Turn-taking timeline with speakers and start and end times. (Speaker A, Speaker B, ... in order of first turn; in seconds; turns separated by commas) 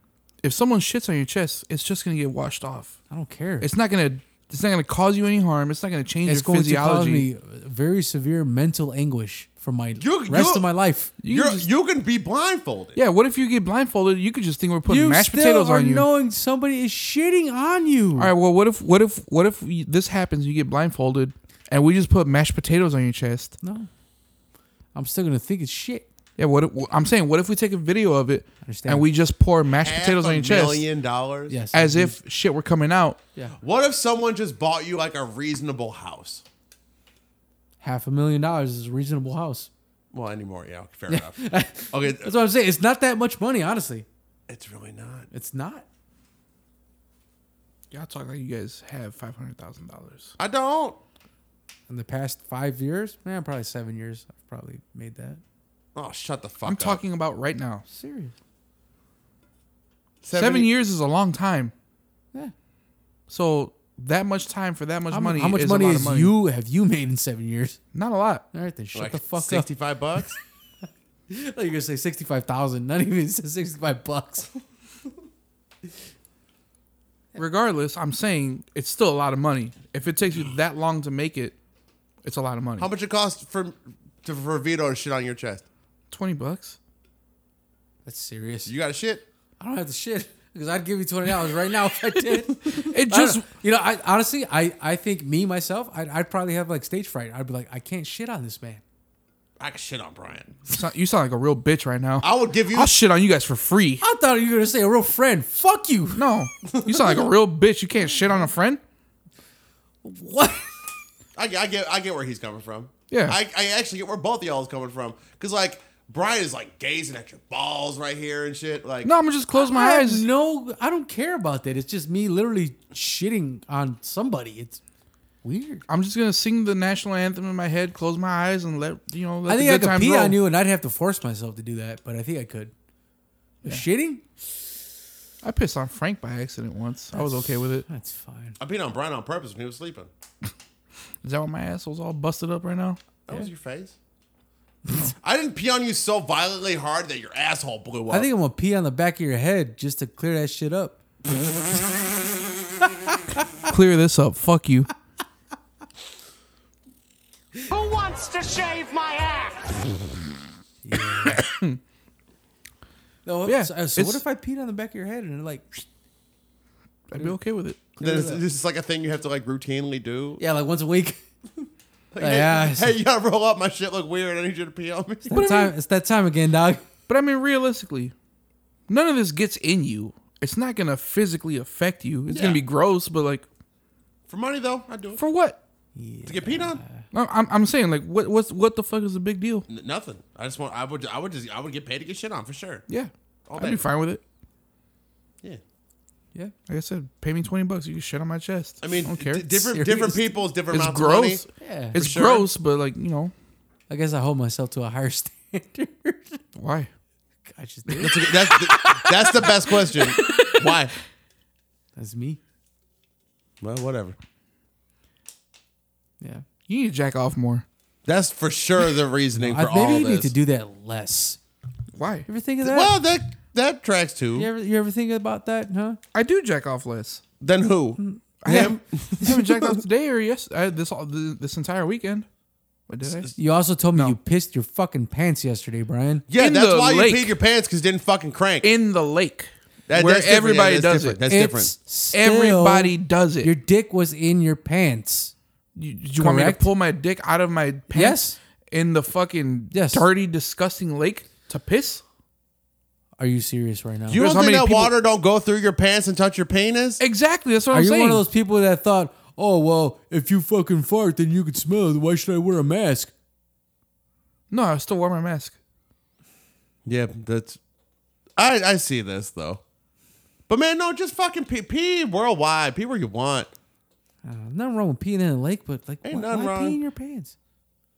Speaker A: 0.4-3.0, Speaker B: 3.1-3.7, Speaker A: 3.6-7.3, Speaker B: 6.3-11.1, Speaker C: 10.0-10.7, Speaker A: 11.2-11.7, Speaker C: 11.2-13.0, Speaker A: 13.0-16.1, Speaker B: 14.9-18.3, Speaker A: 18.2-23.6, Speaker B: 23.6-23.9, Speaker B: 24.9-26.1, Speaker A: 26.4-30.9, Speaker B: 28.6-29.1, Speaker C: 29.8-31.6, Speaker B: 31.5-32.2, Speaker A: 31.7-33.2, Speaker C: 33.6-36.4, Speaker B: 37.8-39.7, Speaker C: 40.1-42.3, Speaker B: 41.1-44.1, Speaker C: 44.5-45.3, Speaker B: 45.3-45.9, Speaker A: 47.9-50.3, Speaker C: 50.4-51.0, Speaker B: 51.9-55.4, Speaker C: 56.0-57.0, Speaker A: 56.6-57.9, Speaker B: 57.9-58.3, Speaker C: 60.2-60.7, Speaker A: 60.3-61.7, Speaker A: 63.3-66.3, Speaker B: 65.1-67.8, Speaker A: 67.9-68.5, Speaker B: 68.5-69.7, Speaker C: 68.9-70.4, Speaker B: 71.3-74.5, Speaker A: 77.4-81.5, Speaker A: 82.2-82.9, Speaker C: 82.8-85.7, Speaker A: 86.1-86.8, Speaker B: 88.1-88.7, Speaker C: 88.7-89.2, Speaker B: 89.6-98.8, Speaker A: 92.1-93.5, Speaker C: 99.6-100.6, Speaker A: 100.7-104.0, Speaker C: 102.2-103.0, Speaker B: 104.0-106.3, Speaker A: 106.2-108.8, Speaker B: 110.0-110.7, Speaker C: 111.4-119.1, Speaker A: 113.1-113.4, Speaker A: 119.0-120.3, Speaker B: 119.5-124.8, Speaker B: 125.4-125.8, Speaker A: 125.9-130.4, Speaker B: 129.5-132.7, Speaker B: 133.6-134.2, Speaker A: 135.4-137.9, Speaker B: 137.1-138.6, Speaker C: 138.6-140.1, Speaker A: 141.2-143.0, Speaker C: 143.3-144.0, Speaker C: 145.2-148.3, Speaker B: 148.1-151.0, Speaker B: 153.1-153.5, Speaker A: 153.7-154.9, Speaker D: 157.7-159.7, Speaker B: 160.8-161.4, Speaker A: 161.3-161.8, Speaker B: 163.3-165.8, Speaker A: 163.5-164.2, Speaker A: 167.1-167.8, Speaker B: 168.0-168.4, Speaker C: 168.0-170.4, Speaker B: 170.4-171.2, Speaker C: 172.1-175.4, Speaker B: 172.2-173.0, Speaker B: 175.3-176.8, Speaker A: 175.3-175.7, Speaker A: 177.1-178.1, Speaker A: 178.9-183.5, Speaker C: 182.3-182.6, Speaker C: 184.3-185.2, Speaker A: 185.2-185.6, Speaker B: 185.9-187.0, Speaker C: 186.3-186.8, Speaker A: 187.1-189.7, Speaker C: 189.7-192.8, Speaker A: 192.9-194.2, Speaker C: 193.5-193.8, Speaker A: 196.7-199.7, Speaker C: 198.8-202.5, Speaker B: 199.7-200.2, Speaker A: 200.7-203.3, Speaker B: 201.6-202.0, Speaker B: 203.9-206.4, Speaker A: 206.6-206.9, Speaker B: 207.5-209.8, Speaker C: 208.0-210.9, Speaker B: 212.0-212.4, Speaker C: 213.6-214.2, Speaker A: 216.7-217.7, Speaker C: 218.1-220.3, Speaker B: 219.3-221.4, Speaker A: 221.9-222.3, Speaker B: 222.3-223.0, Speaker C: 222.6-224.5, Speaker B: 224.3-226.0, Speaker A: 226.1-227.2, Speaker C: 227.4-229.8, Speaker B: 228.0-228.7, Speaker A: 228.4-232.3, Speaker A: 232.9-233.3, Speaker C: 233.0-233.3, Speaker B: 233.4-236.2, Speaker C: 236.3-238.7, Speaker A: 236.4-237.4, Speaker A: 238.6-241.2, Speaker C: 239.9-241.8, Speaker B: 241.3-245.3, Speaker A: 242.1-243.5, Speaker A: 245.8-252.0, Speaker B: 246.2-246.7, Speaker B: 247.9-248.4, Speaker B: 249.7-250.1, Speaker B: 253.2-254.2, Speaker C: 254.1-257.0, Speaker A: 254.2-254.9, Speaker A: 257.0-258.3, Speaker B: 257.7-263.1, Speaker A: 264.5-265.6, Speaker C: 266.9-267.6, Speaker C: 268.4-269.6, Speaker C: 270.5-273.5, Speaker B: 274.2-277.4, Speaker C: 276.0-276.8